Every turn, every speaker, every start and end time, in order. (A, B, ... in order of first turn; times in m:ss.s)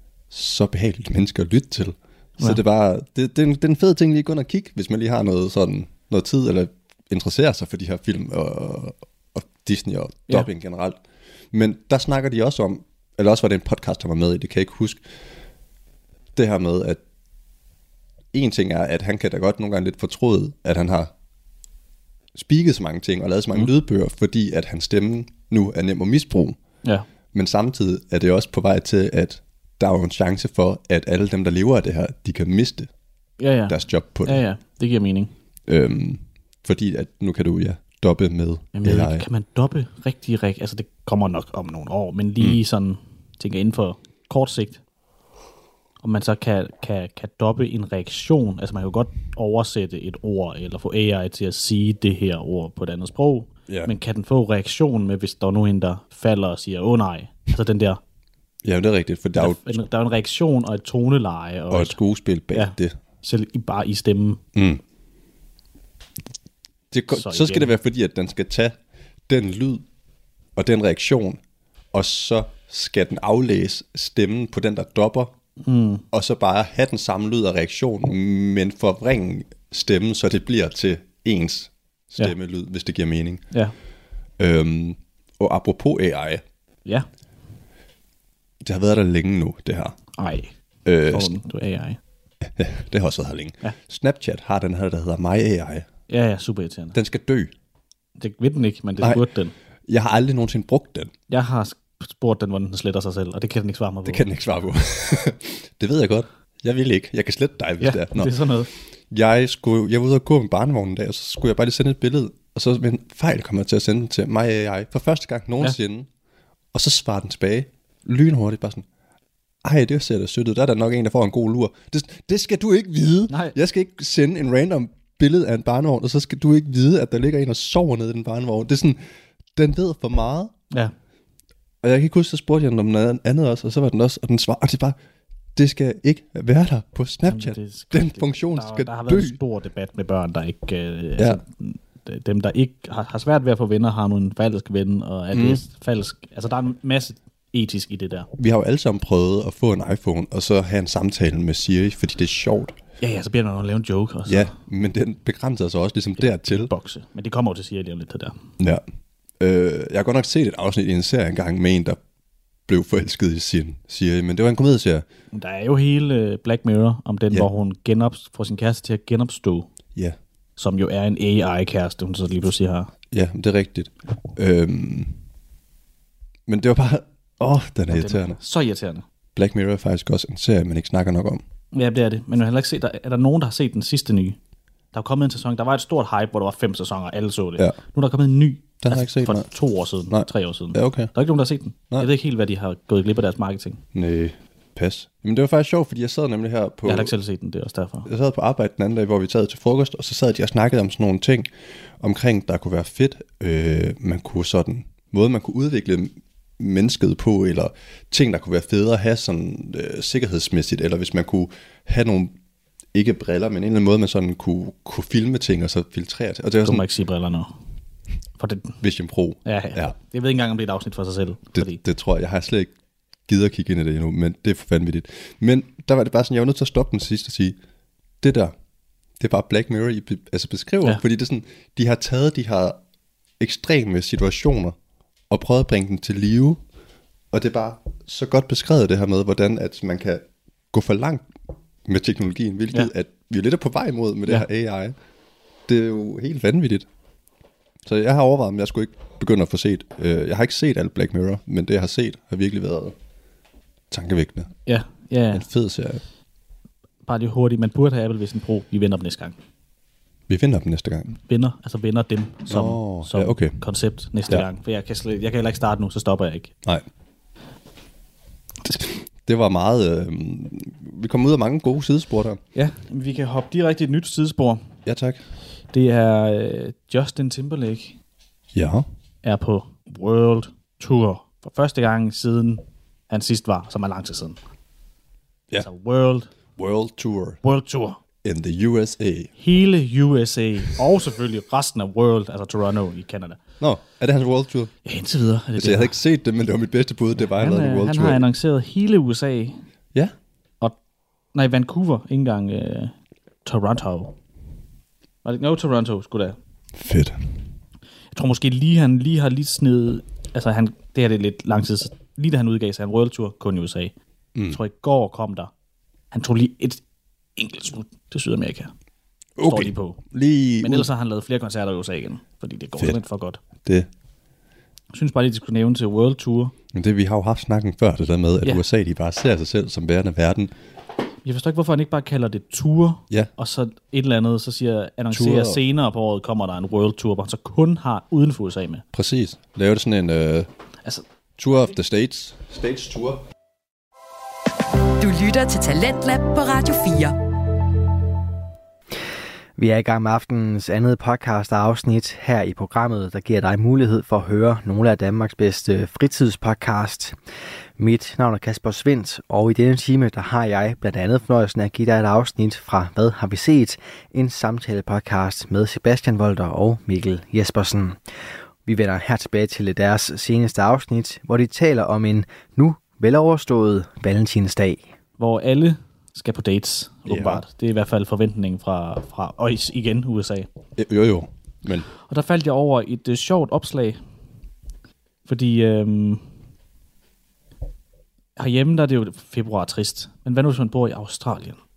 0:00.3-0:11.0 A
0:11.5-0:15.0 A
0:16.3-0:17.0 A
0:18.3-0:21.1 A
0:22.3-0:26.6 A
0:27.2-0:32.9 A
0:33.4-0:35.3 B
0:33.7-0:34.4 A
0:35.7-0:39.2 A
0:38.7-0:44.8 B
0:46.0-0:58.0 B
0:58.6-0:59.8 A
0:59.4-1:02.0 B
1:01.7-1:02.9 A
1:02.5-1:04.4 B
1:04.5-1:04.8 A
1:06.9-1:08.7 A
1:07.1-1:07.7 B
1:09.3-1:09.8 A
1:10.6-1:11.4 A
1:11.9-1:15.3 A
1:15.6-1:16.0 B
1:16.1-1:23.4 A
1:24.4-1:26.4 A
1:28.6-1:30.0 A
1:30.2-1:30.5 B
1:30.8-1:31.4 A
1:31.1-1:32.0 B
1:32.5-1:35.9 A
1:36.1-1:37.0 B
1:36.9-1:37.5 A
1:38.2-1:39.5 B
1:39.0-1:39.2 A
1:39.9-1:41.1 A
1:41.3-1:44.2 B
1:44.0-1:48.4 A
1:47.8-1:48.7 B
1:49.1-1:56.1 A
1:56.7-1:58.8 A
1:59.6-2:09.0 A
2:03.3-2:03.6 B
2:09.6-2:10.5 A
2:11.8-2:15.0 A
2:15.6-2:19.4 A
2:17.2-2:28.3 B
2:25.3-2:25.6 A
2:28.4-2:32.8 A
2:33.0-2:34.5 B
2:34.3-2:36.7 A
2:36.2-2:38.4 B
2:39.4-2:42.0 A
2:42.7-2:45.0 A
2:45.3-2:49.7 B
2:50.6-2:52.9 B
2:53.1-2:55.2 A
2:56.5-2:58.4 A
2:57.9-2:59.0 B
2:59.3-3:01.4 A
3:01.7-3:04.4 B
3:04.9-3:13.8 B
3:08.8-3:09.5 A
3:10.1-3:11.1 A
3:13.9-3:17.1 A
3:16.8-3:18.1 B
3:18.0-3:21.5 A
3:22.0-3:32.3 A
3:32.9-3:36.8 A
3:36.6-3:37.5 B
3:38.4-3:38.8 B
3:38.8-3:40.0 A
3:39.4-3:41.8 B
3:41.5-3:42.7 A
3:43.3-3:47.6 A
3:48.2-3:48.5 A
3:49.2-3:52.8 A
3:53.4-3:54.8 A
3:55.3-3:56.6 A
3:57.3-4:01.2 A
4:01.8-4:04.9 A
4:05.7-4:06.9 A
4:07.8-4:12.9 A
4:13.9-4:14.5 A
4:14.6-4:15.5 B
4:15.3-4:16.0 A
4:17.0-4:19.4 B
4:20.3-4:21.2 A
4:21.2-4:26.5 B
4:22.5-4:23.6 A
4:28.6-4:32.4 A
4:32.5-4:34.7 B
4:34.8-4:35.2 A
4:35.7-4:38.0 B
4:38.5-4:38.8 A
4:39.2-4:44.4 B
4:45.6-4:46.4 B
4:46.6-4:47.4 A
4:47.4-4:48.0 B
4:48.2-4:49.3 A
4:49.4-4:53.4 B
4:53.6-4:54.7 A
4:54.8-4:56.0 B
4:55.6-4:58.2 A
4:57.2-4:59.6 B
5:01.3-5:02.9 B
5:03.4-5:04.1 B
5:05.2-5:06.4 B
5:06.8-5:07.2 A
5:08.1-5:13.9 B
5:14.3-5:14.6 A
5:14.5-5:15.5 B
5:16.1-5:16.8 B
5:17.4-5:18.7 B
5:19.4-5:20.9 A
5:19.4-5:20.0 B
5:20.6-5:23.4 B
5:24.9-5:26.5 B
5:26.7-5:30.5 A
5:31.2-5:38.8 B
5:35.1-5:35.6 A
5:38.9-5:40.5 A
5:41.4-5:43.2 A
5:45.0-5:47.2 C
5:49.6-5:57.2 D
5:57.8-6:08.0 D
6:08.6-6:14.8 D
6:15.2-6:20.5 B
6:17.1-6:17.4 A
6:20.8-6:21.9 A
6:22.0-6:24.0 B
6:25.2-6:26.2 B
6:28.4-6:31.6 B